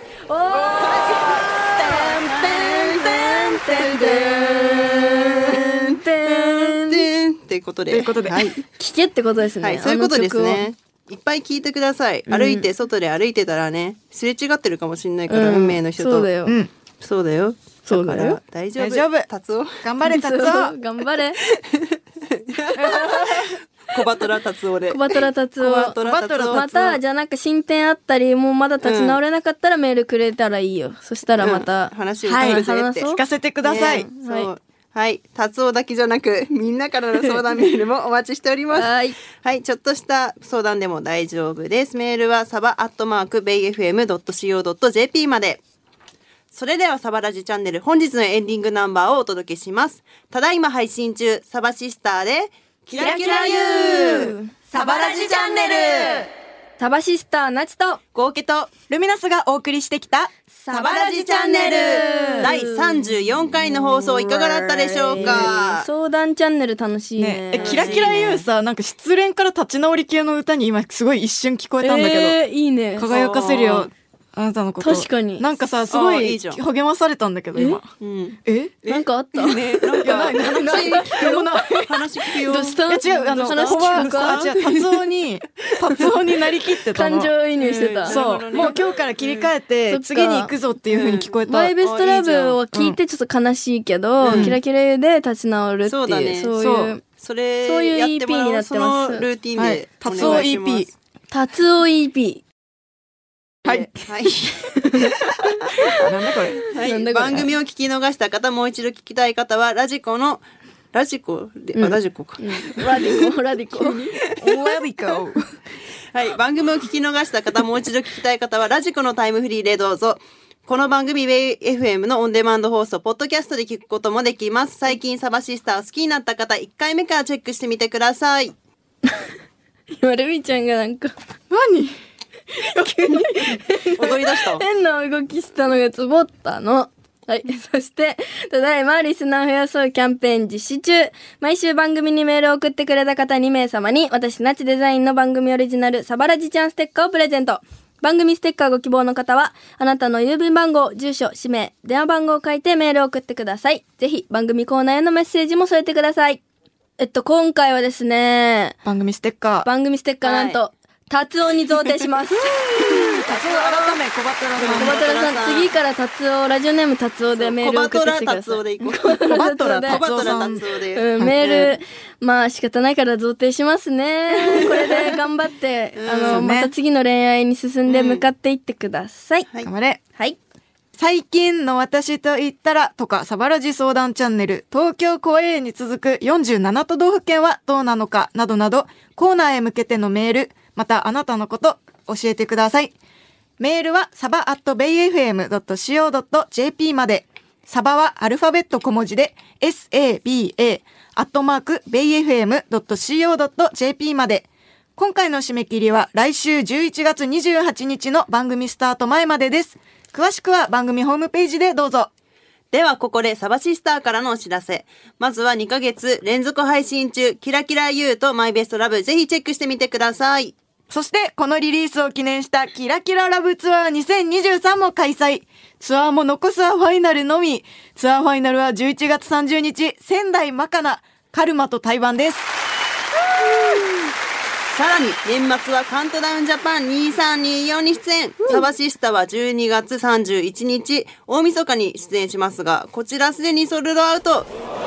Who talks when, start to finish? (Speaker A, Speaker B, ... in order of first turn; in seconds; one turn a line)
Speaker A: 0.3-7.1
Speaker B: 0.5-2.7
Speaker C: 0.8-1.5
Speaker C: 2.3-2.9
Speaker B: 3.6-4.9
Speaker C: 5.5-8.6
Speaker B: 7.9-8.5
Speaker A: 8.8-10.7
Speaker C: 9.6-16.3
Speaker A: 12.3-12.7
Speaker A: 15.3-16.6
Speaker B: 16.5-16.7
Speaker C: 17.0-19.8
Speaker A: 17.9-18.4
Speaker B: 18.8-19.3
Speaker B: 19.8-20.8
Speaker A: 20.1-21.4
Speaker C: 21.4-26.7
Speaker B: 22.8-23.6
Speaker A: 22.8-23.4
Speaker A: 24.9-34.5
Speaker B: 25.6-27.0
Speaker C: 28.8-29.2
Speaker C: 31.4-45.6
Speaker B: 32.3-34.1
Speaker A: 38.7-39.2
Speaker C: 46.5-56.3
Speaker A: 53.0-54.5
Speaker B: 53.0-54.2
Speaker B: 54.8-55.8
Speaker A: 56.8-58.0
Speaker C: 58.1-58.7
Speaker B: 58.9-60.3
Speaker A: 60.5-68.4
Speaker C: 60.7-65.9
Speaker B: 61.0-62.5
Speaker B: 65.2-65.5
Speaker B: 67.2-72.4
Speaker C: 67.6-68.3
Speaker A: 71.8-73.1
Speaker B: 73.0-77.9
Speaker C: 73.1-73.9
Speaker A: 74.8-75.5
Speaker C: 75.9-76.6
Speaker A: 77.5-77.8
Speaker C: 78.0-82.8
Speaker B: 78.5-78.7
Speaker A: 78.8-81.5
Speaker B: 80.0-82.1
Speaker A: 82.4-84.5
Speaker B: 82.9-87.3
Speaker C: 83.3-85.0
Speaker C: 85.7-86.1
Speaker A: 86.9-88.7
Speaker C: 87.6-89.5
Speaker B: 88.1-91.7
Speaker A: 89.9-90.5
Speaker C: 90.9-91.3
Speaker A: 91.4-97.0
Speaker C: 91.8-92.6
Speaker B: 92.7-93.0
Speaker C: 94.2-94.6
Speaker B: 94.3-94.6
Speaker C: 95.9-100.9
Speaker B: 96.6-96.9
Speaker A: 97.6-99.3
Speaker B: 99.6-100.9
Speaker A: 100.2-100.5
Speaker A: 101.3-102.4
Speaker B: 103.7-104.5
Speaker C: 103.7-104.5
Speaker A: 104.7-105.1
Speaker B: 105.4-106.6
Speaker C: 106.7-113.3
Speaker A: 106.7-107.5
Speaker A: 111.8-114.2
Speaker B: 113.8-115.6
Speaker C: 116.1-128.5
Speaker A: 129.1-129.3
Speaker A: 129.9-131.1
Speaker B: 131.5-132.0
Speaker B: 132.5-133.6
Speaker A: 132.6-156.4
Speaker C: 133.9-134.6
Speaker A: 157.0-158.8
Speaker B: 158.8-159.7
Speaker A: 159.6-164.0
Speaker C: 160.2-160.6
Speaker B: 162.4-164.9
Speaker A: 164.6-170.1
Speaker C: 164.6-165.7
Speaker C: 167.3-169.3
Speaker B: 169.3-170.6
Speaker C: 169.9-171.8
Speaker A: 170.9-179.5
Speaker C: 176.0-176.5
Speaker B: 176.2-176.7
Speaker C: 177.9-178.2
Speaker B: 179.7-180.0
Speaker B: 181.0-192.9
Speaker B: 193.6-212.1
Speaker C: 212.7-220.6
Speaker B: 220.9-232.6
Speaker C: 234.7-244.5